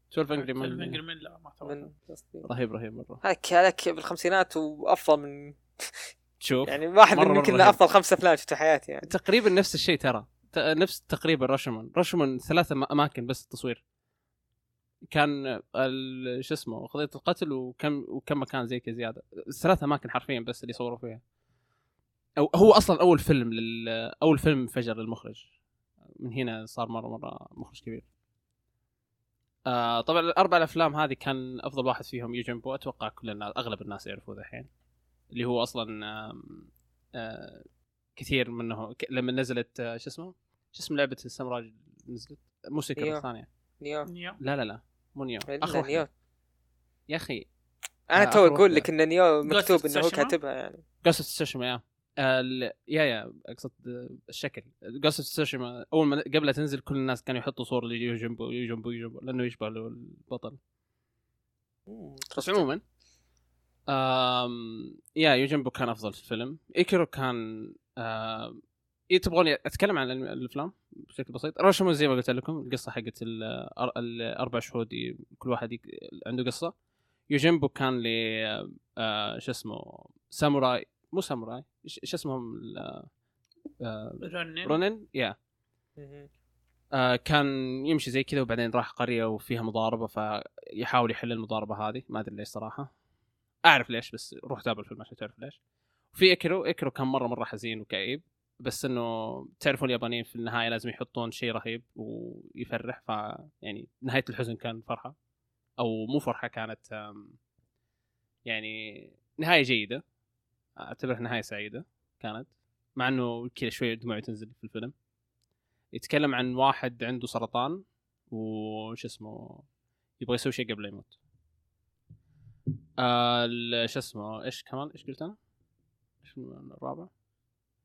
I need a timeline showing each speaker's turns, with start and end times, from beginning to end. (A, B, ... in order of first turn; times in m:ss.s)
0:00.1-0:01.0 A
0:00.4-0:01.9 B
0:01.6-0:02.4 C
0:02.4-0:03.2 A
0:03.2-0:06.1 C
0:06.4-0:07.8 A
0:06.6-0:09.1 C
0:09.0-0:13.8 A
0:15.1-0:21.2 A
0:22.4-0:25.5 A
0:26.2-0:28.0 A
0:29.7-0:34.7 A
0:35.3-0:43.5 A
0:43.0-0:43.2 C
0:43.8-0:44.1 C
0:44.0-0:44.4 B
0:44.4-0:46.0 A
0:45.5-0:46.1 C
0:47.1-0:47.5 A
0:48.1-0:50.8 C
0:48.2-0:48.9 A
0:49.4-0:50.3 B
0:51.0-1:00.6 A
1:01.9-1:02.6 C
1:02.4-1:02.8 A
1:03.9-1:16.7 A
1:17.3-1:23.1 A
1:23.8-1:25.4 A
1:24.2-1:24.8 B
1:26.0-1:26.3 C
1:26.9-1:32.9 A
1:33.7-1:35.6 A
1:36.1-1:45.1 A
1:45.8-1:47.4 A
1:48.5-1:50.0 A
1:50.8-1:54.9 A
1:55.9-1:59.6 A
2:00.2-2:01.2 A
2:03.0-2:05.4 A
2:06.2-2:07.1 A